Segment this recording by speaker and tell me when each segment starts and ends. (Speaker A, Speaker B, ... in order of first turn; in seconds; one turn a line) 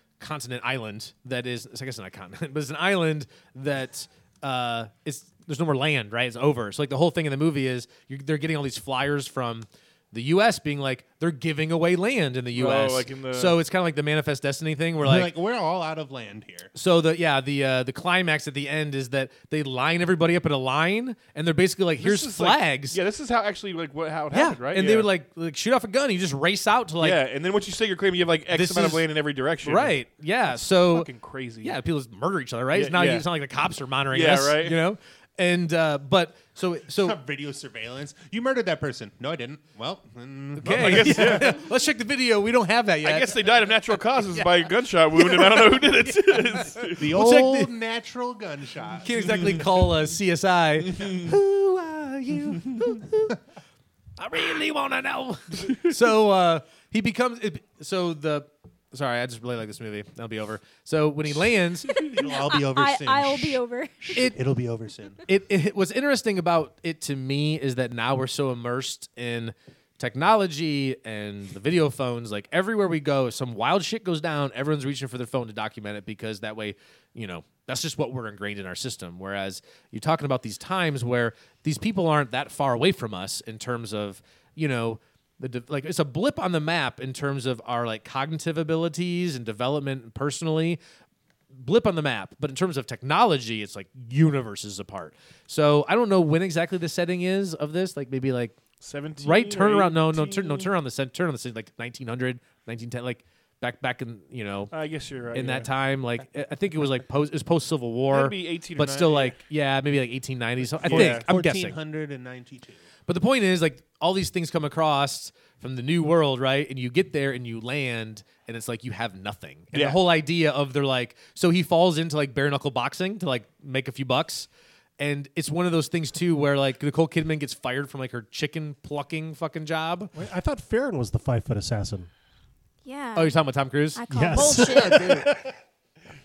Speaker A: 0.2-15.3
Speaker B: 12.5-13.6
Speaker C: 15.0-16.7
Speaker A: 16.8-23.0
Speaker B: 22.0-25.1
Speaker A: 24.3-27.2
Speaker B: 27.0-30.0
Speaker A: 28.5-29.1
Speaker A: 29.6-31.1
Speaker B: 30.8-31.8
Speaker A: 31.6-37.2
Speaker B: 32.7-33.3
Speaker B: 34.1-34.8
Speaker C: 37.0-41.5
Speaker A: 40.6-43.5
Speaker B: 40.6-41.6
Speaker B: 43.0-47.1
Speaker A: 44.2-47.7
Speaker C: 47.0-49.6
Speaker A: 49.0-53.4
Speaker B: 50.9-51.3
Speaker A: 54.2-61.9
Speaker D: 61.9-64.3
Speaker C: 61.9-65.2
Speaker A: 64.1-64.4
Speaker A: 65.3-90.8
Speaker A: 91.6-98.6
Speaker B: 98.8-100.7
Speaker A: 99.2-104.7
Speaker B: 104.7-105.7
Speaker A: 105.3-111.8
Speaker B: 108.1-109.4
Speaker B: 110.8-111.3
Speaker C: 110.8-112.8
Speaker A: 113.1-124.5
Speaker B: 119.7-120.0
Speaker A: 125.0-130.1
Speaker E: 130.2-132.1
Speaker D: 132.8-133.4
Speaker A: 133.2-135.3
Speaker D: 133.9-135.3
Speaker E: 134.1-135.5